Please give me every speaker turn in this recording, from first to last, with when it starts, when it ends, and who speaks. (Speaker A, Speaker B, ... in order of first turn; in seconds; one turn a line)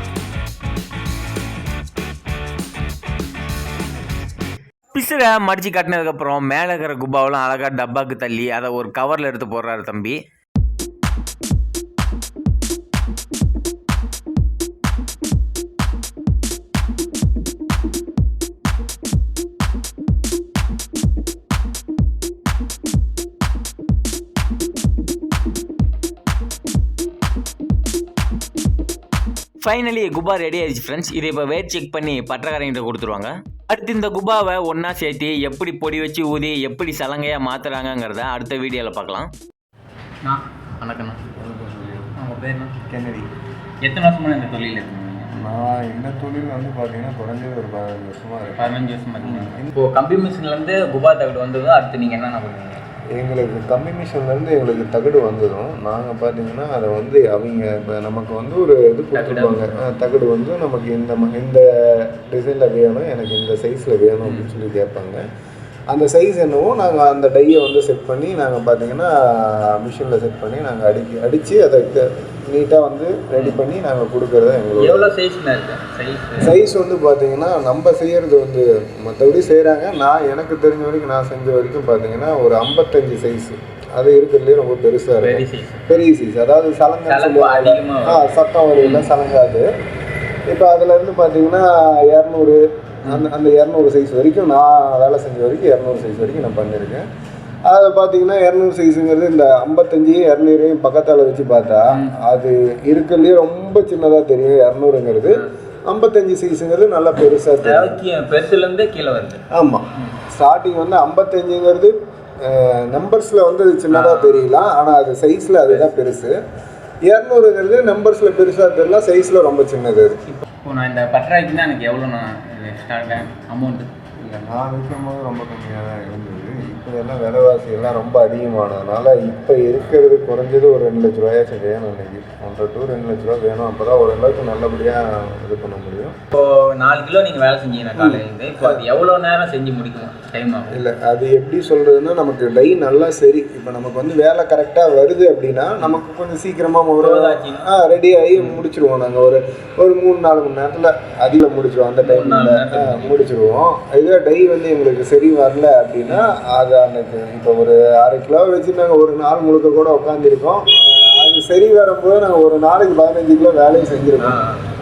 Speaker A: 4.9-10.2
Speaker A: 29.6-39.3
Speaker A: 40.8-41.1
Speaker B: 41.4-42.1
Speaker C: 42.3-42.7
Speaker B: 42.9-43.3
Speaker C: 43.9-45.3
Speaker B: 45.4-49.7
Speaker C: 48.5-52.8
Speaker B: 53.2-65.2
Speaker C: 59.1-59.7
Speaker C: 64.2-64.5
Speaker B: 65.9-75.1
Speaker C: 73.3-73.6
Speaker C: 74.8-76.6
Speaker B: 76.4-89.7
Speaker C: 85.2-85.9
Speaker C: 87.1-89.1
Speaker B: 90.5-97.0
Speaker B: 97.7-108.0
Speaker C: 107.7-109.4
Speaker B: 109.5-109.8
Speaker B: 110.4-111.9
Speaker B: 112.5-116.4
Speaker C: 113.9-114.5
Speaker B: 117.1-120.2
Speaker C: 120.3-123.9
Speaker B: 124.3-136.2
Speaker C: 136.3-140.8
Speaker B: 137.9-138.8
Speaker B: 140.7-164.4
Speaker C: 147.0-147.7
Speaker C: 152.0-153.2
Speaker C: 156.1-156.3
Speaker C: 164.2-164.6